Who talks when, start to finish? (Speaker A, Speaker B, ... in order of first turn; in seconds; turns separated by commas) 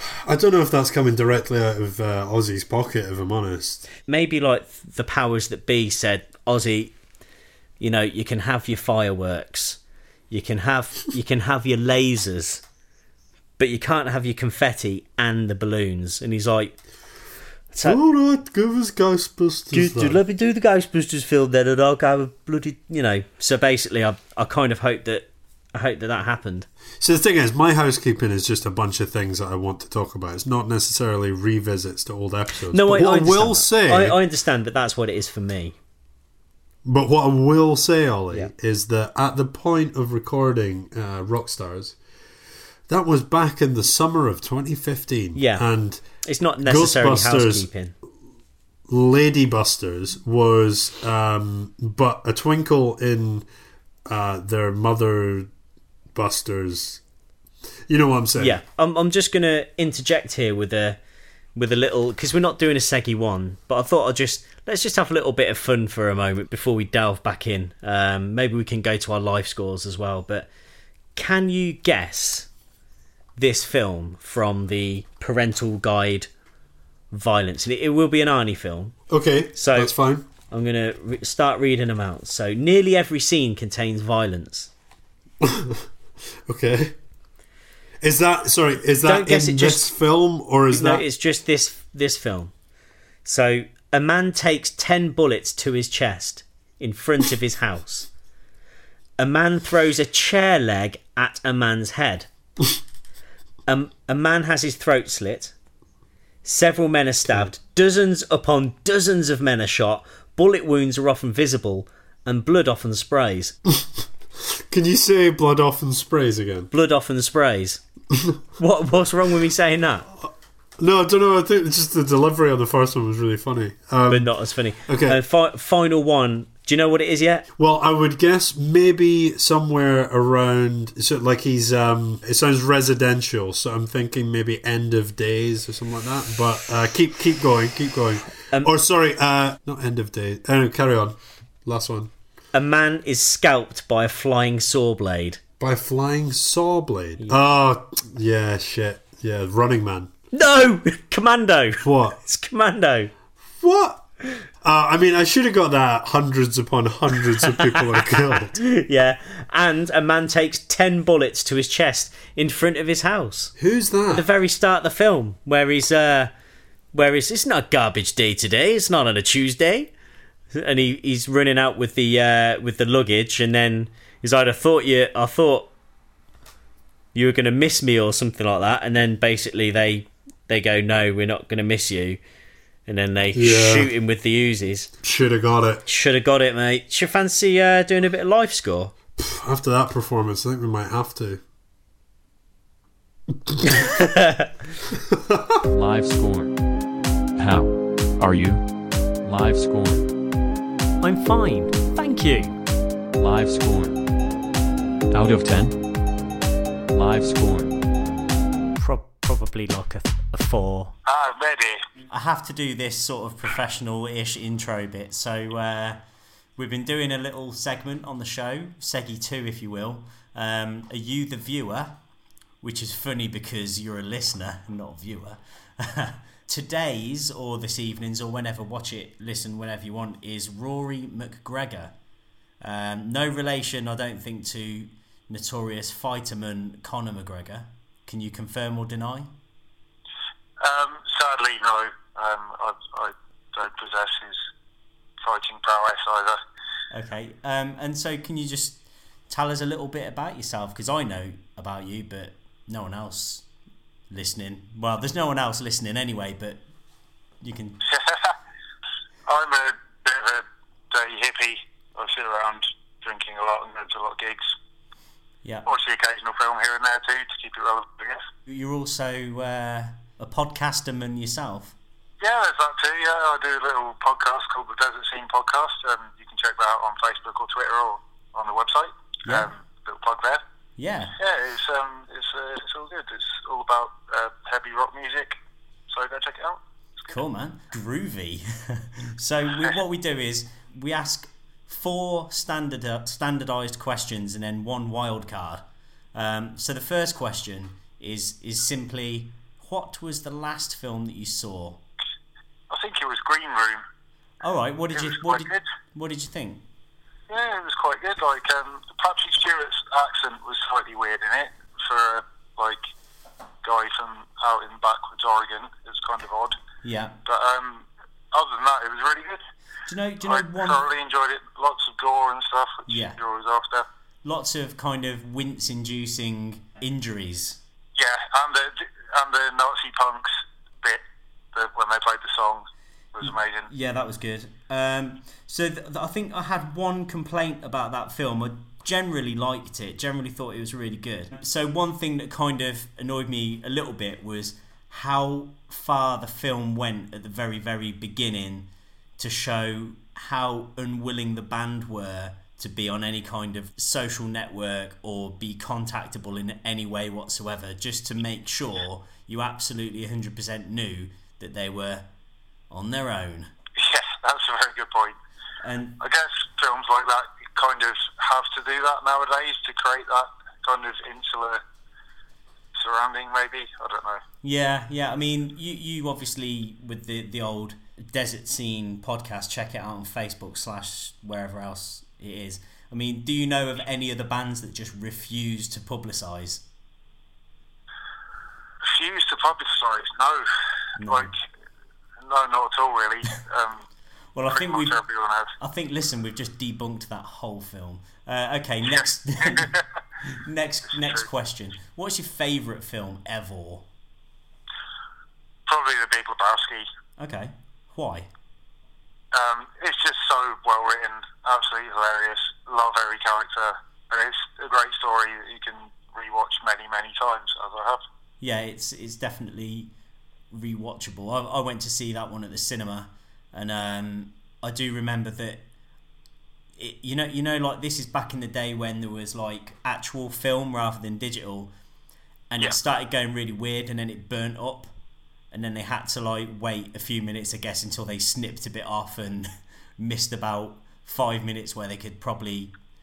Speaker A: 0.1-3.9, Speaker B: 4.0-6.9, Speaker B: 7.8-9.8, Speaker B: 10.3-12.6, Speaker B: 13.6-16.7, Speaker B: 17.7-18.0, Speaker A: 17.8-20.2, Speaker B: 19.7-26.7, Speaker A: 27.0-34.2, Speaker B: 32.7-35.8, Speaker A: 36.8-42.0, Speaker A: 42.9-46.0, Speaker B: 45.4-45.6, Speaker B: 46.2-47.9, Speaker A: 46.6-47.7, Speaker A: 48.9-53.4, Speaker A: 54.1-55.5, Speaker A: 56.1-57.0, Speaker A: 57.9-58.6, Speaker B: 58.4-61.0, Speaker B: 61.5-70.5, Speaker B: 71.1-72.5, Speaker B: 73.4-76.3, Speaker B: 77.1-79.0, Speaker A: 79.1-80.3, Speaker B: 79.5-79.9, Speaker B: 80.5-84.7, Speaker A: 85.4-85.8, Speaker A: 86.5-86.9, Speaker A: 88.0-91.0, Speaker B: 89.0-89.9, Speaker B: 90.7-92.5, Speaker B: 93.2-98.1, Speaker B: 99.2-102.3, Speaker B: 103.7-105.5, Speaker B: 106.4-113.5, Speaker A: 114.5-116.7, Speaker B: 116.7-117.8, Speaker B: 118.6-120.1, Speaker A: 120.8-124.3, Speaker B: 124.1-127.5, Speaker A: 124.9-125.2, Speaker A: 127.6-142.1, Speaker B: 142.5-145.4, Speaker A: 145.6-150.1, Speaker B: 150.3-153.1, Speaker A: 151.8-152.2, Speaker A: 153.6-154.0, Speaker A: 154.6-158.6, Speaker B: 157.6-163.5, Speaker A: 163.6-164.3, Speaker B: 164.1-166.3, Speaker B: 166.9-169.9, Speaker B: 170.5-175.7, Speaker B: 177.1-182.2, Speaker B: 182.9-184.9, Speaker A: 183.3-183.9, Speaker A: 185.0-185.8, Speaker B: 185.8-188.9, Speaker A: 189.2-191.4, Speaker B: 193.8-194.5, Speaker A: 195.1-195.6, Speaker C: 195.7-196.6, Speaker C: 197.4-198.6, Speaker C: 199.2-200.1, Speaker B: 201.0-202.6, Speaker C: 203.2-204.1, Speaker C: 205.1-205.8, Speaker C: 206.9-207.8, Speaker B: 208.8-210.9, Speaker D: 211.1-211.8, Speaker B: 212.1-216.0, Speaker B: 216.6-222.0, Speaker B: 222.6-231.9, Speaker B: 232.6-239.3, Speaker D: 240.6-244.4, Speaker D: 245.2-246.4, Speaker B: 246.9-253.4, Speaker B: 254.1-256.6, Speaker B: 257.4-257.8, Speaker D: 257.9-258.3, Speaker D: 259.3-264.5, Speaker D: 265.6-268.2, Speaker B: 268.4-271.8, Speaker D: 272.2-280.4, Speaker B: 279.2-279.5, Speaker B: 280.8-281.2, Speaker D: 281.2-285.4, Speaker D: 285.9-287.1, Speaker B: 287.1-301.8, Speaker D: 302.7-303.8, Speaker B: 304.4-306.6, Speaker D: 304.9-305.6, Speaker D: 307.3-312.8, Speaker D: 313.6-316.6, Speaker B: 316.8-317.2, Speaker D: 317.2-319.4, Speaker B: 319.9-320.8, Speaker D: 320.2-323.9, Speaker B: 322.9-323.2, Speaker B: 324.2-327.6, Speaker D: 328.0-330.3, Speaker D: 331.5-333.7, Speaker B: 333.2-362.1, Speaker B: 362.7-363.5, Speaker D: 363.8-365.2, Speaker B: 365.6-366.0, Speaker D: 366.0-371.6, Speaker D: 372.8-374.2, Speaker B: 374.4-386.6, Speaker D: 388.9-390.4, Speaker B: 391.0-391.3, Speaker D: 391.0-391.4, Speaker D: 392.2-393.8, Speaker B: 394.3-395.0, Speaker D: 394.5-395.5, Speaker B: 395.6-399.7, Speaker D: 399.5-399.8, Speaker B: 400.3-403.9, Speaker D: 405.7-406.9, Speaker B: 407.2-408.3, Speaker D: 409.3-418.0, Speaker B: 418.4-419.9, Speaker B: 420.5-425.6, Speaker B: 426.8-431.7, Speaker B: 432.5-434.9, Speaker B: 435.5-442.7